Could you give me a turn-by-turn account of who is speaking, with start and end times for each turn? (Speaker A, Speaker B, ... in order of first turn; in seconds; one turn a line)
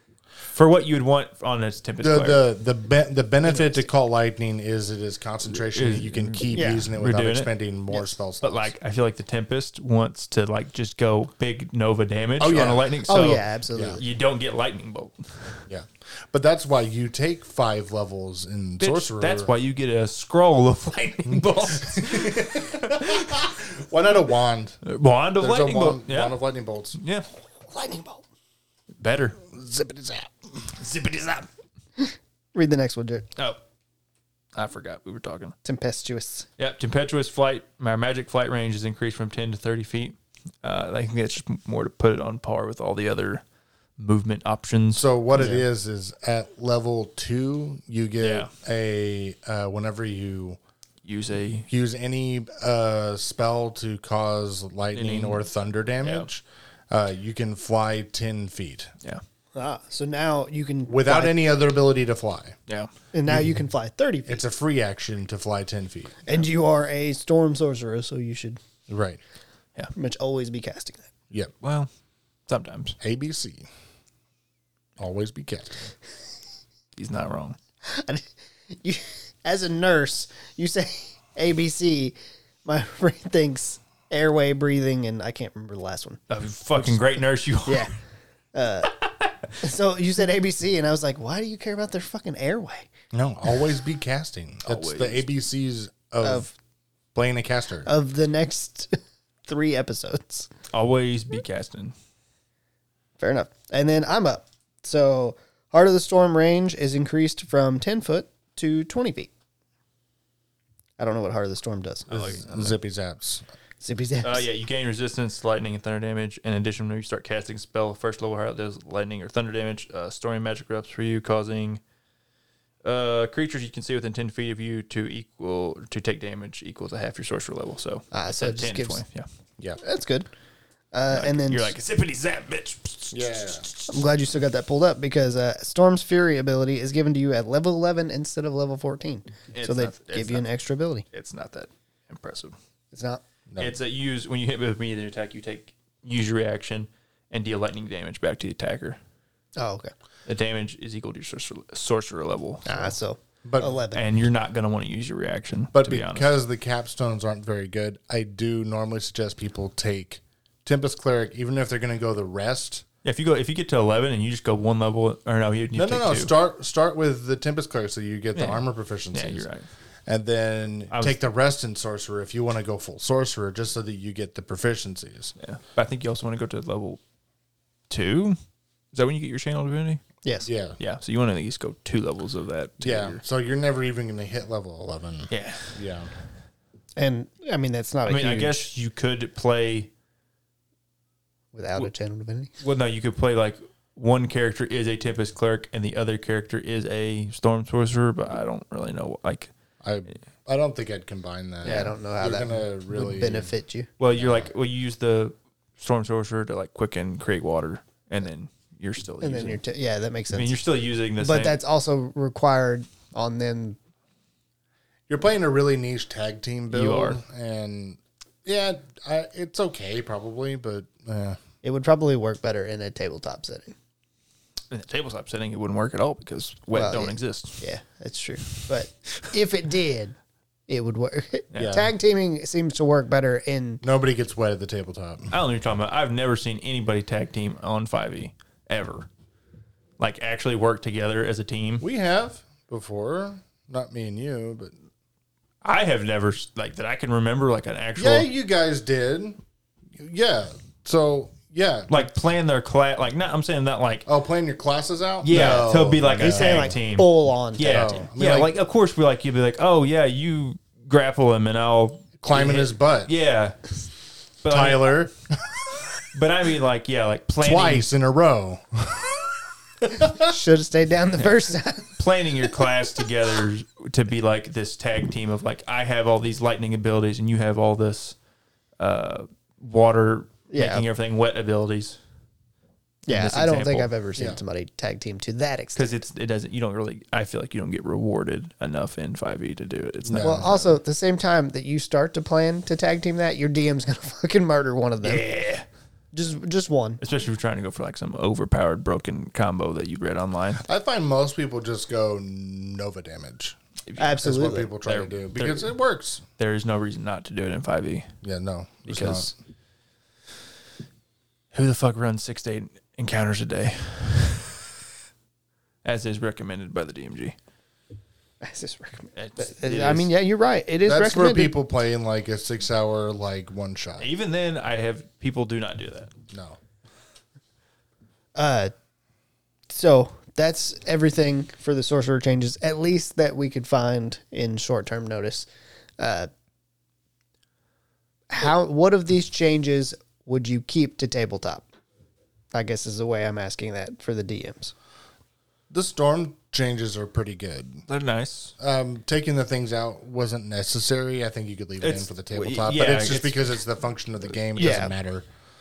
Speaker A: 0.5-2.4
Speaker B: 2.0-8.7
Speaker A: 5.5-7.5
Speaker C: 6.5-6.9
Speaker A: 8.4-13.4
Speaker B: 12.4-12.9
Speaker C: 13.1-14.0
Speaker B: 13.7-14.0
Speaker A: 14.0-15.7
Speaker B: 15.7-19.5
Speaker A: 18.8-23.5
Speaker B: 21.3-24.8
Speaker A: 24.8-26.4
Speaker B: 25.4-27.0
Speaker A: 26.9-27.3
Speaker C: 27.7-28.2
Speaker A: 29.0-29.4
Speaker B: 29.4-30.3
Speaker A: 30.8-31.5
Speaker C: 32.0-33.3
Speaker A: 34.5-35.6
Speaker C: 35.6-36.5
Speaker A: 36.6-43.4
Speaker A: 44.0-45.0
Speaker B: 44.9-50.6
Speaker C: 45.3-45.6
Speaker A: 48.2-48.5
Speaker A: 51.0-51.7
Speaker B: 51.7-58.9
Speaker A: 54.9-55.5
Speaker A: 56.0-56.3
Speaker C: 59.5-61.3
Speaker B: 60.9-62.6
Speaker C: 63.1-64.4
Speaker B: 63.3-63.5
Speaker B: 64.3-66.2
Speaker C: 66.3-68.6
Speaker B: 68.9-69.2
Speaker C: 70.0-71.1
Speaker A: 71.6-71.9
Speaker A: 72.5-73.0
Speaker B: 73.0-73.7
Speaker B: 75.0-75.9
Speaker A: 77.0-77.6
Speaker C: 77.8-86.2
Speaker A: 86.3-87.9
Speaker C: 87.7-87.9
Speaker C: 88.5-88.9
Speaker A: 89.0-89.3
Speaker C: 89.6-92.9
Speaker B: 93.1-96.5
Speaker A: 94.7-95.3
Speaker C: 96.2-96.5
Speaker B: 97.2-97.9
Speaker C: 97.8-100.5
Speaker A: 100.7-101.9
Speaker C: 103.2-109.3
Speaker C: 111.0-112.4
Speaker A: 112.1-112.8
Speaker B: 112.1-113.5
Speaker C: 113.8-114.5
Speaker A: 114.2-121.8
Speaker A: 122.8-129.3
Speaker C: 128.1-129.0
Speaker C: 129.8-130.3
Speaker C: 130.9-131.7
Speaker A: 131.1-133.9
Speaker B: 133.1-133.7
Speaker C: 133.9-141.1
Speaker A: 139.5-140.5
Speaker A: 141.1-142.6
Speaker C: 142.9-143.2
Speaker B: 143.5-143.8
Speaker A: 143.6-149.0
Speaker C: 149.6-149.9
Speaker A: 150.3-152.9
Speaker C: 152.7-154.0
Speaker B: 153.4-153.8
Speaker A: 153.9-156.3
Speaker B: 155.7-162.8
Speaker A: 163.0-166.3
Speaker B: 165.8-169.5
Speaker A: 168.4-169.7
Speaker B: 170.1-175.3
Speaker A: 170.9-171.2
Speaker A: 175.4-177.0
Speaker A: 177.9-178.4
Speaker A: 178.9-180.0
Speaker B: 180.4-180.8
Speaker A: 180.8-183.2
Speaker B: 182.8-186.1
Speaker A: 185.3-185.8
Speaker C: 187.0-188.7
Speaker A: 188.1-189.9
Speaker C: 191.5-192.5
Speaker A: 192.6-199.5
Speaker B: 199.8-203.5
Speaker C: 201.6-203.9
Speaker A: 204.0-209.6
Speaker B: 204.2-204.5
Speaker C: 209.2-210.6
Speaker A: 210.3-211.6
Speaker C: 211.2-213.8
Speaker B: 215.1-221.4
Speaker A: 216.7-217.2
Speaker C: 221.6-223.8
Speaker A: 224.7-227.6
Speaker C: 226.7-230.2
Speaker C: 230.7-233.8
Speaker A: 231.5-231.8
Speaker B: 231.6-231.9
Speaker B: 233.8-235.3
Speaker A: 235.3-239.1
Speaker A: 240.0-241.8
Speaker B: 241.8-244.7
Speaker A: 245.6-248.3
Speaker B: 248.0-249.4
Speaker B: 250.0-252.0
Speaker A: 251.9-254.1
Speaker B: 254.1-256.8
Speaker A: 255.2-263.7
Speaker C: 255.3-257.9
Speaker B: 257.6-258.5
Speaker B: 262.2-263.1
Speaker A: 264.4-265.1
Speaker B: 264.5-265.1
Speaker A: 266.1-267.9
Speaker B: 267.4-269.2
Speaker B: 269.9-270.3
Speaker C: 270.2-272.0
Speaker A: 272.0-278.2
Speaker A: 278.8-282.0
Speaker C: 280.5-280.9
Speaker A: 283.1-283.9
Speaker C: 283.1-285.9
Speaker A: 285.8-290.8
Speaker B: 290.1-290.5
Speaker C: 290.2-295.2
Speaker A: 295.0-295.7
Speaker C: 296.1-297.0
Speaker A: 297.0-300.6
Speaker B: 300.6-303.6
Speaker A: 303.9-305.7
Speaker C: 304.0-304.7
Speaker B: 304.2-306.2
Speaker A: 306.4-308.1
Speaker B: 308.2-309.3
Speaker A: 308.9-309.3
Speaker A: 311.5-314.7
Speaker A: 315.8-317.4
Speaker C: 318.4-321.6
Speaker A: 319.1-320.1
Speaker B: 320.9-324.1
Speaker A: 324.0-326.1
Speaker B: 326.3-326.6
Speaker C: 328.4-328.7
Speaker C: 329.7-335.5
Speaker C: 336.0-336.3
Speaker C: 338.3-341.7
Speaker C: 342.5-344.7
Speaker B: 345.7-347.8
Speaker A: 347.9-348.5
Speaker B: 348.6-355.3
Speaker A: 351.8-353.5
Speaker C: 354.6-354.9